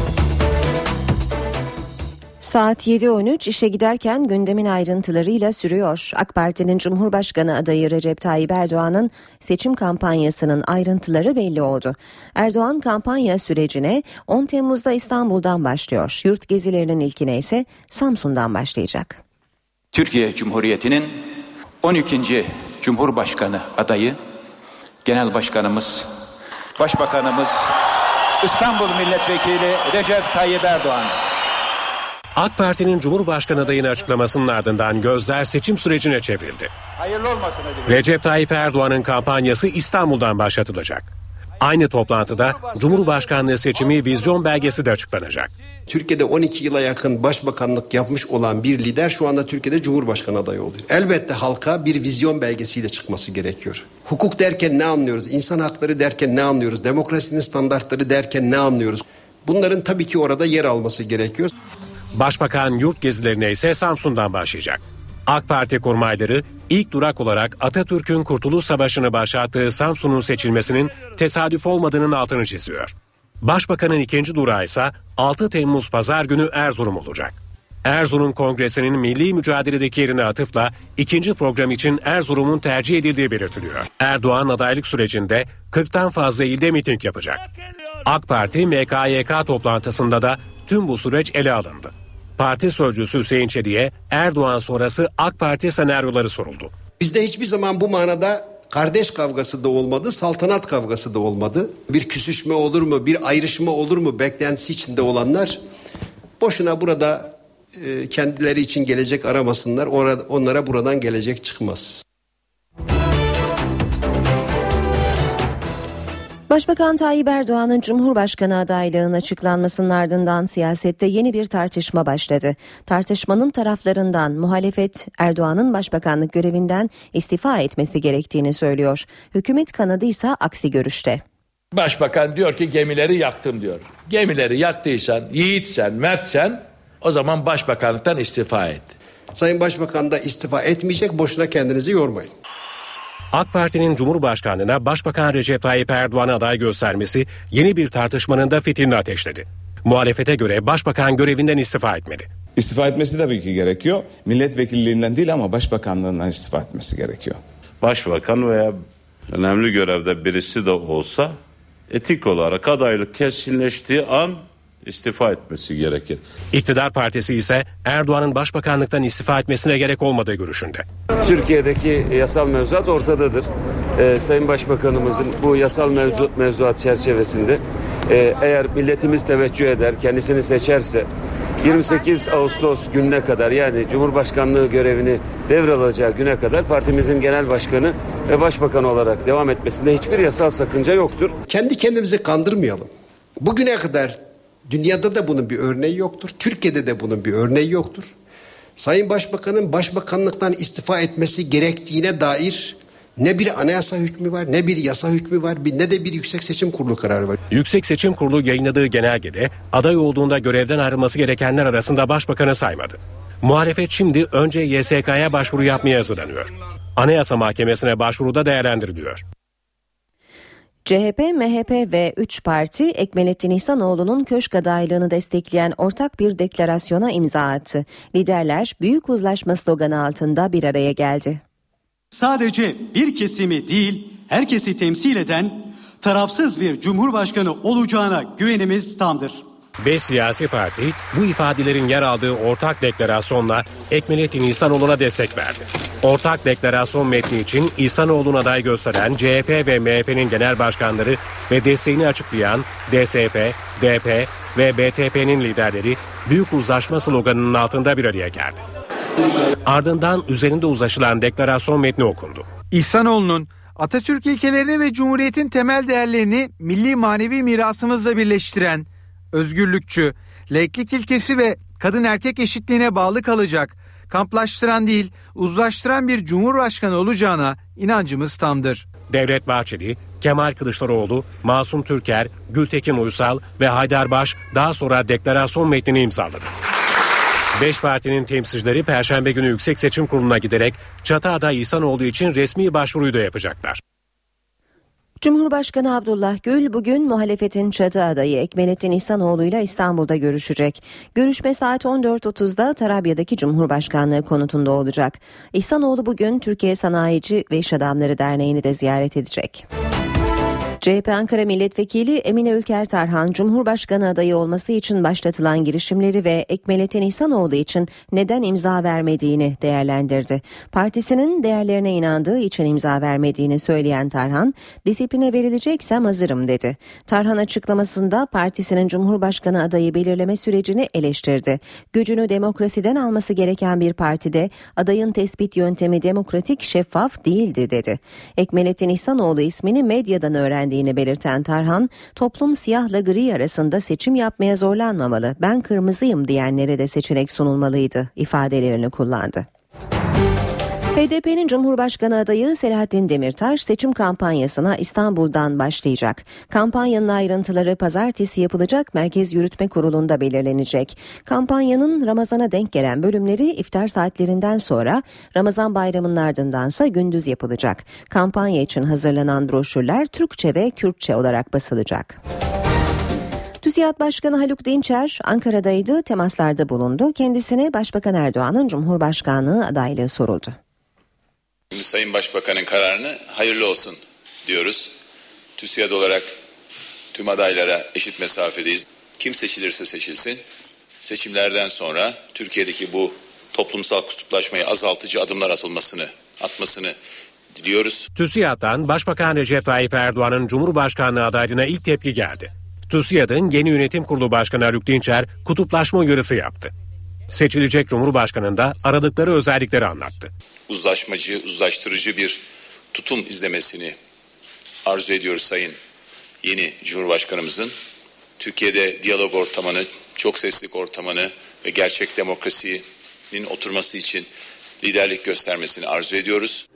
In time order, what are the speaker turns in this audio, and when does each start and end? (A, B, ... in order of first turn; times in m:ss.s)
0:02.4-0:19.2 A
0:19.9-0:24.2 B
0:25.0-0:27.8 B
0:28.4-0:31.2 B
0:32.4-0:36.7 C
0:37.0-0:37.8 B
0:37.8-0:41.1 C
0:41.6-0:45.5 C
0:45.9-1:01.5 D
1:02.1-1:27.4 C
1:28.0-1:36.7 C
1:37.0-1:45.6 D
1:46.4-1:52.0 D
1:56.5-2:11.2 A
2:11.7-2:18.9 E
2:19.3-2:22.3 D
2:23.3-2:32.3 C
2:32.6-2:37.4 F
2:37.8-2:41.4 G
2:41.9-2:46.2 G
2:46.5-2:50.8 C
2:51.2-3:01.1 H
3:01.6-3:11.4 H
3:11.5-3:18.1 D
3:18.8-3:27.4 D
3:27.5-3:39.2 C
3:40.8-3:51.4 A
3:52.1-3:59.4 I
3:59.8-4:18.6 C
4:19.6-4:22.5 C
4:22.7-4:38.8 J
4:39.1-4:46.5 C
4:47.6-4:53.8 C
4:55.2-5:09.6 A
5:10.8-5:49.4 A
5:50.9-6:12.2 A
6:13.6-6:20.6 A
6:21.7-6:25.0 K
6:25.6-6:26.4 K
6:27.1-6:30.4 K
6:31.0-6:37.0 K
6:37.5-6:38.1 K
6:38.1-6:46.7 C
6:47.3-6:50.3 C
6:50.7-6:54.0 K
6:54.8-6:55.8 K
6:56.4-6:57.7 K
6:58.4-7:04.3 K
7:04.8-7:06.6 K